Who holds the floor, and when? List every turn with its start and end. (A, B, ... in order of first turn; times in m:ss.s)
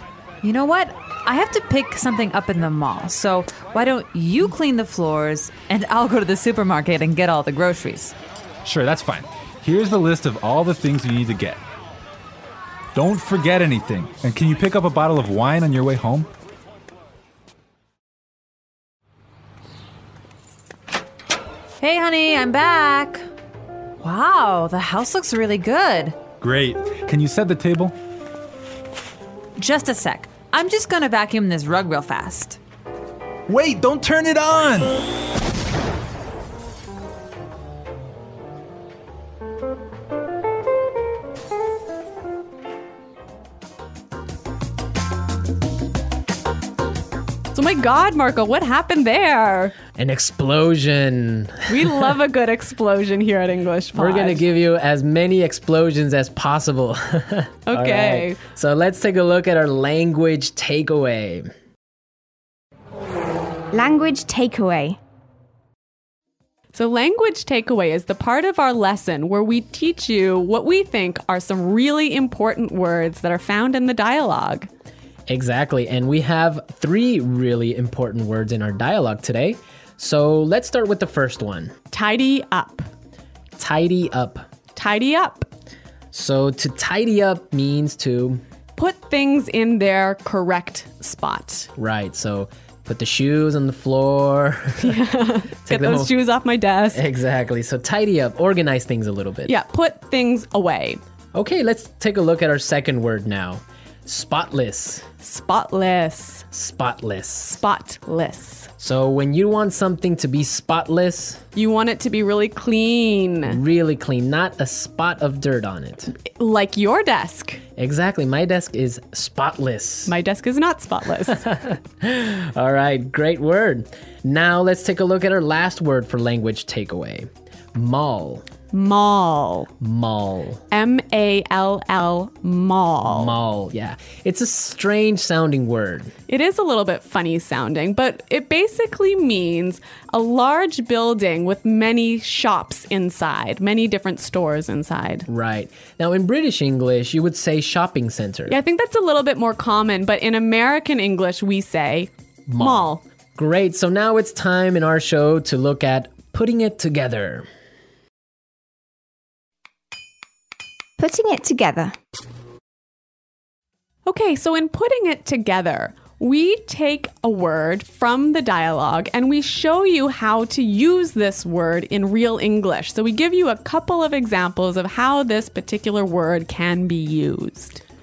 0:00.4-0:08.2 A
0:08.6-0:11.6 B
0:13.0-0:16.3 B
0:21.8-0:23.2 A
0:24.0-0:26.2 A
0:26.4-0:28.0 B
0:29.6-0:32.6 A
0:33.5-0:35.0 B
0:47.5-0:49.8 C
0:49.9-0:51.7 D
0:51.7-0:54.5 C
0:54.0-1:01.5 D
0:57.7-0:58.4 C
1:03.7-1:05.0 E
1:06.7-1:14.7 C
1:15.3-1:21.7 D
1:21.9-1:22.9 C
1:23.6-1:24.5 D
1:24.7-1:25.5 C
1:26.1-1:28.4 D
1:28.8-1:31.7 C
1:31.8-1:35.0 D
1:34.8-1:37.0 C
1:35.7-1:36.2 D
1:36.9-1:39.5 D
1:39.4-1:41.0 C
1:41.3-1:45.1 D
1:45.2-1:46.5 C
1:46.5-1:47.6 D
1:47.5-1:48.7 C
1:48.8-1:51.4 D
1:51.6-1:53.6 C
1:53.5-1:56.1 D
1:56.2-1:57.6 C
1:57.8-2:00.2 D
2:00.1-2:01.4 C
2:01.4-2:08.5 D
2:08.7-2:09.7 C
2:09.8-2:10.6 D
2:10.7-2:13.4 C
2:13.1-2:16.1 D
2:16.3-2:25.3 C
2:25.3-2:28.6 D
2:28.5-2:33.0 C
2:32.5-2:37.5 D
2:41.0-2:42.0 E
2:44.1-2:57.8 C